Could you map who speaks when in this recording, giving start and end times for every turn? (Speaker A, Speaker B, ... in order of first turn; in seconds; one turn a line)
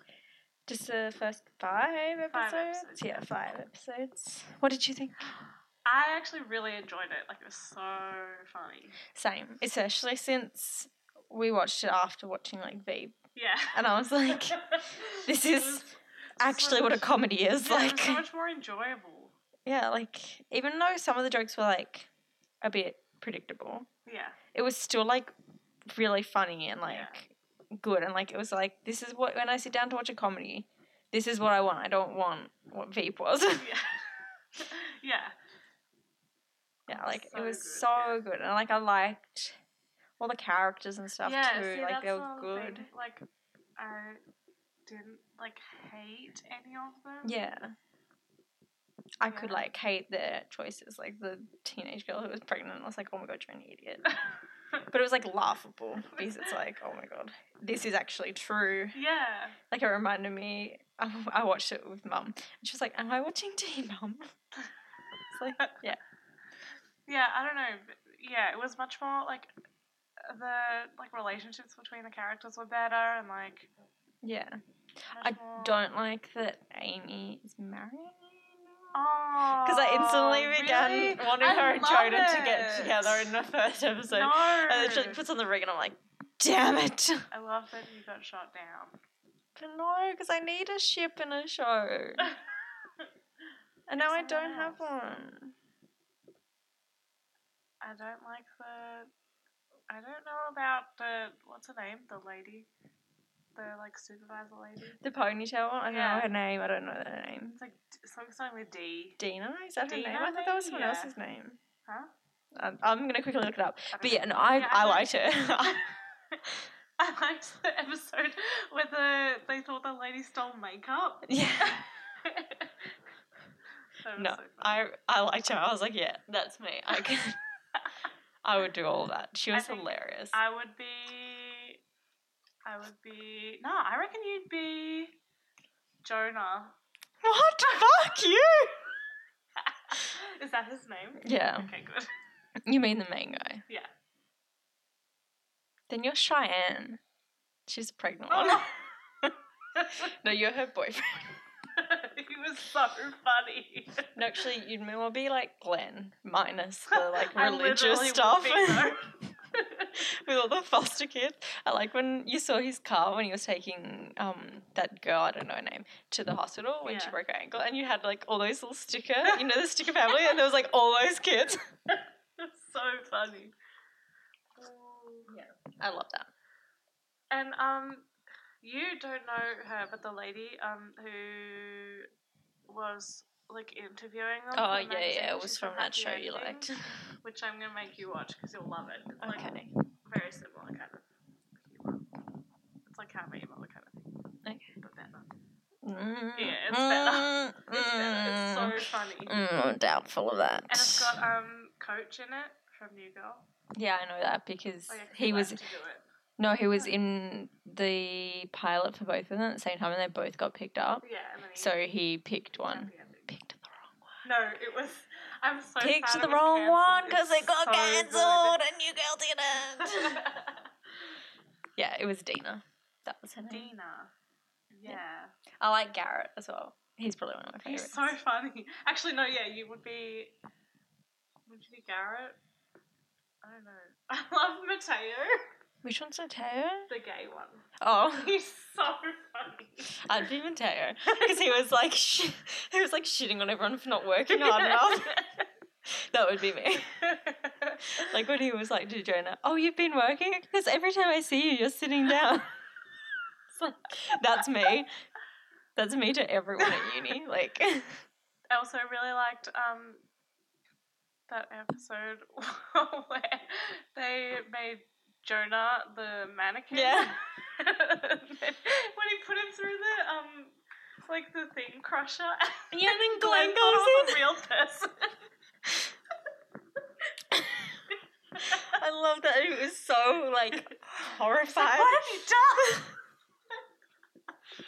Speaker A: 0.7-5.3
Speaker B: 2.3-3.4
Speaker B: 5.2-9.0
Speaker A: 9.1-13.2
Speaker B: 13.3-19.3
Speaker A: 13.7-18.2
Speaker A: 19.6-22.1
Speaker A: 22.6-23.9
Speaker B: 24.1-24.4
Speaker A: 24.5-25.3
Speaker A: 25.9-33.7
Speaker B: 26.9-27.1
Speaker B: 33.5-35.3
Speaker B: 36.9-38.2
Speaker A: 36.9-39.6
Speaker A: 40.2-42.9
Speaker B: 41.2-43.2
Speaker B: 43.8-44.2
Speaker B: 44.9-47.5
Speaker A: 47.2-47.8
Speaker A: 49.2-54.1
Speaker B: 49.3-49.6
Speaker A: 54.9-59.0
Speaker B: 58.9-59.6
Speaker A: 59.7-64.3
Speaker A: 65.3-66.0
Speaker B: 67.1-69.5
Speaker B: 70.2-73.7
Speaker A: 74.2-78.8
Speaker B: 75.1-75.9
Speaker B: 78.9-83.3
Speaker A: 79.6-87.3
Speaker B: 84.1-85.2
Speaker B: 87.3-89.0
Speaker A: 89.5-92.3
Speaker A: 93.9-95.5
Speaker B: 94.0-94.8
Speaker B: 97.8-99.1
Speaker B: 99.9-102.7
Speaker B: 103.5-105.0
Speaker A: 105.0-107.6
Speaker B: 105.8-106.3
Speaker B: 107.6-109.2
Speaker A: 109.2-111.6
Speaker B: 109.8-111.1
Speaker A: 112.5-115.8
Speaker B: 113.9-115.8
Speaker B: 117.0-122.7
Speaker A: 121.2-121.8
Speaker B: 124.0-124.8
Speaker A: 124.2-127.4
Speaker A: 128.4-130.4
Speaker B: 129.5-131.8
Speaker B: 132.6-135.2
Speaker B: 136.0-136.8
Speaker A: 137.2-138.8
Speaker B: 139.6-142.1
Speaker A: 141.2-141.7
Speaker A: 142.7-143.6
Speaker A: 145.9-147.0
Speaker A: 147.7-148.7
Speaker B: 148.3-148.8
Speaker B: 149.8-150.2
Speaker A: 149.8-151.4
Speaker B: 151.7-154.1
Speaker A: 154.1-159.0
Speaker B: 156.9-159.9
Speaker A: 160.0-171.6
Speaker B: 166.8-167.2
Speaker B: 171.9-173.5
Speaker B: 174.6-175.3
Speaker A: 175.3-176.3
Speaker B: 177.3-178.1
Speaker B: 178.6-182.1
Speaker B: 182.7-191.1
Speaker A: 184.5-186.9
Speaker A: 189.2-189.7
Speaker B: 191.6-192.0
Speaker B: 192.8-194.2
Speaker B: 194.8-195.3
Speaker A: 195.8-201.1
Speaker B: 196.3-199.3
Speaker B: 200.7-203.4
Speaker A: 203.8-205.6
Speaker B: 204.9-206.0
Speaker A: 206.4-211.0
Speaker B: 211.0-211.8
Speaker A: 211.6-214.0
Speaker B: 212.6-213.3
Speaker B: 214.2-218.6
Speaker A: 215.8-220.2
Speaker B: 219.8-220.7
Speaker A: 221.8-223.7
Speaker B: 223.5-224.1
Speaker B: 224.7-225.3
Speaker A: 225.6-228.1
Speaker B: 227.6-230.4
Speaker B: 231.5-232.4
Speaker B: 233.4-235.4
Speaker A: 235.8-236.9
Speaker B: 236.9-240.0
Speaker A: 237.8-238.3
Speaker A: 239.9-245.1
Speaker B: 244.3-245.5
Speaker A: 245.8-247.0
Speaker B: 246.9-248.0
Speaker A: 248.0-252.5
Speaker A: 253.6-254.9
Speaker A: 255.8-258.1
Speaker B: 258.5-260.0
Speaker B: 261.3-275.1
Speaker A: 266.7-267.1
Speaker A: 272.7-274.2
Speaker A: 277.3-277.8
Speaker B: 278.4-278.8
Speaker A: 278.4-282.8
Speaker B: 281.5-282.9